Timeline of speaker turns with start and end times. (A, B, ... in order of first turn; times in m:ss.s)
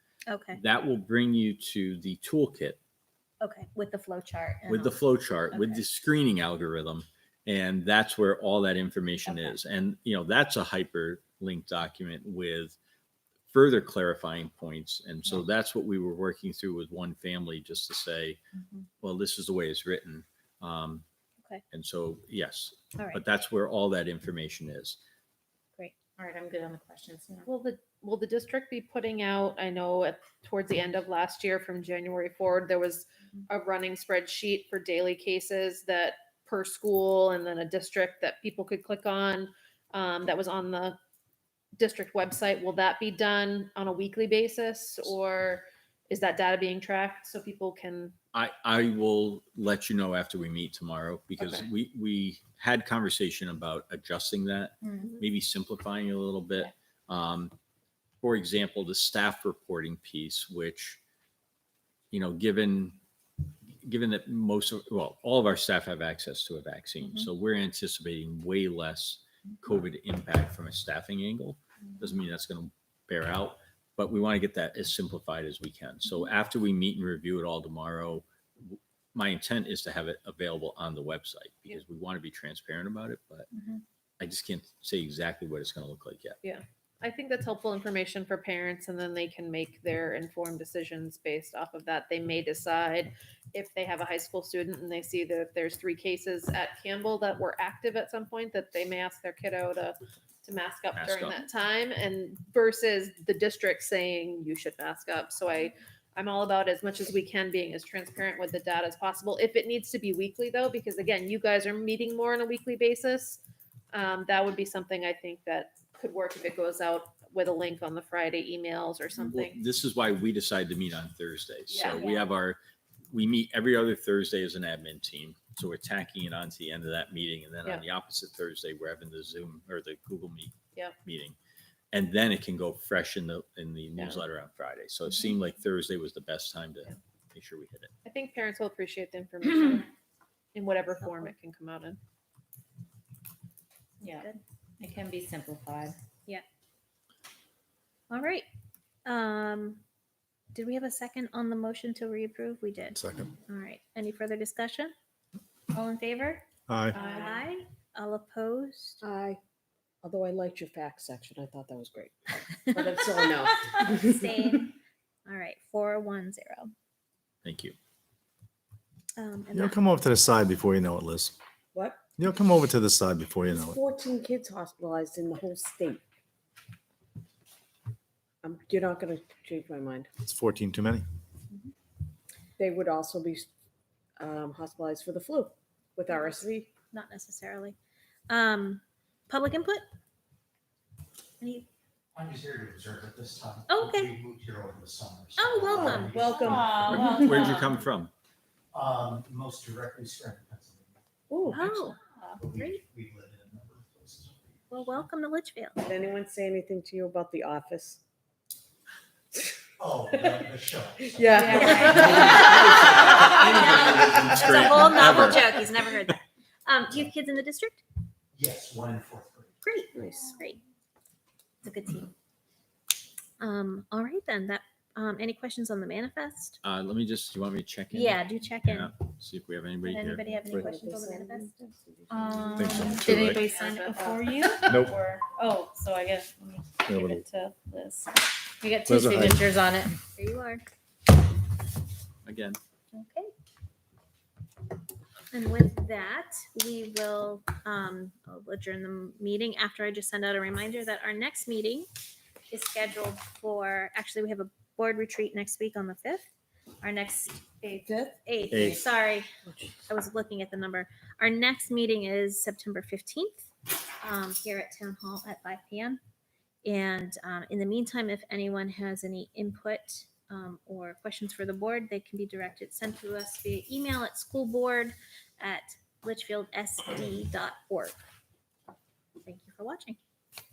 0:00.3-0:00.6 A
0:00.5-0:02.8 B
0:03.4-0:05.8 A
0:04.7-0:12.8 B
0:13.5-0:18.4 B
0:19.0-0:21.0 B
0:21.7-0:25.0 B
0:23.0-0:23.2 A
0:26.2-0:27.5 C
0:27.5-0:41.0 D
0:41.8-0:48.1 D
0:48.3-0:57.5 B
0:54.8-0:55.2 A
0:58.2-1:01.0 B
1:02.1-1:03.0 B
1:03.8-1:23.5 B
1:24.2-1:26.4 B
1:26.4-1:53.4 D
1:40.9-1:41.4 B
1:53.9-1:59.6 D
1:59.2-2:02.6 B
2:01.8-2:02.2 A
2:03.1-2:11.4 B
2:11.9-2:17.9 B
2:14.0-2:14.2 D
2:18.0-2:19.8 D
2:20.5-2:22.0 D
2:21.0-2:21.3 A
2:24.0-2:26.0 C
2:24.0-2:24.4 A
2:28.1-2:28.4 A
2:29.0-2:29.8 A
2:30.5-2:34.9 A
2:32.9-2:33.3 E
2:35.7-2:39.0 A
2:36.7-2:37.0 E
2:39.0-2:39.4 F
2:40.0-2:44.6 F
2:43.8-2:46.7 A
2:47.4-2:47.8 B
2:49.2-2:49.8 A
2:49.5-2:51.3 E
2:51.7-2:52.0 F
2:52.2-2:53.8 E
2:53.5-2:56.0 F
2:58.4-3:00.1 F
3:00.2-3:01.0 E
3:02.6-3:03.5 F
3:04.2-3:06.7 F
3:06.1-3:06.4 A
3:06.9-3:07.8 A
3:08.3-3:09.8 A
3:11.4-3:11.6 A
3:12.1-3:17.2 G
3:13.7-3:14.1 A
3:15.4-3:16.6 A
3:15.7-3:17.2 F
3:16.0-3:17.7 C
3:16.9-3:18.1 B
3:18.7-3:21.0 G
3:21.3-3:21.6 F
3:21.5-3:22.8 A
3:21.5-3:24.9 G
3:24.7-3:25.8 A
3:25.8-3:28.0 F
3:29.8-3:35.4 G
3:30.1-3:30.4 F
3:31.1-3:32.9 F
3:31.3-3:32.5 C
3:31.5-3:37.8 A
3:32.8-3:35.5 B
3:38.3-3:39.5 G
3:39.6-3:40.6 A
3:39.9-3:40.4 F
3:41.6-3:42.1 A
3:43.4-3:46.6 A
3:46.6-3:50.3 B
3:47.9-3:48.9 A
3:49.8-3:51.5 A
3:50.4-3:53.0 F
3:52.1-3:58.1 C
3:52.5-3:53.4 E
3:52.7-3:53.3 A
3:53.1-3:54.6 D
3:54.6-3:54.9 E
3:56.8-3:57.3 E
3:58.6-4:00.0 C
3:58.8-3:59.5 E
4:00.2-4:00.6 A
4:02.2-4:02.6 B
4:02.9-4:03.3 A
4:05.3-4:11.9 A
4:12.5-4:16.3 A
4:16.8-4:17.5 A
4:17.6-4:18.6 F
4:18.1-4:19.3 A
4:18.5-4:18.8 E
4:19.4-4:19.7 F
4:19.8-4:23.5 A
4:24.0-4:26.0 A
4:26.6-4:38.0 A
4:39.2-4:40.0 A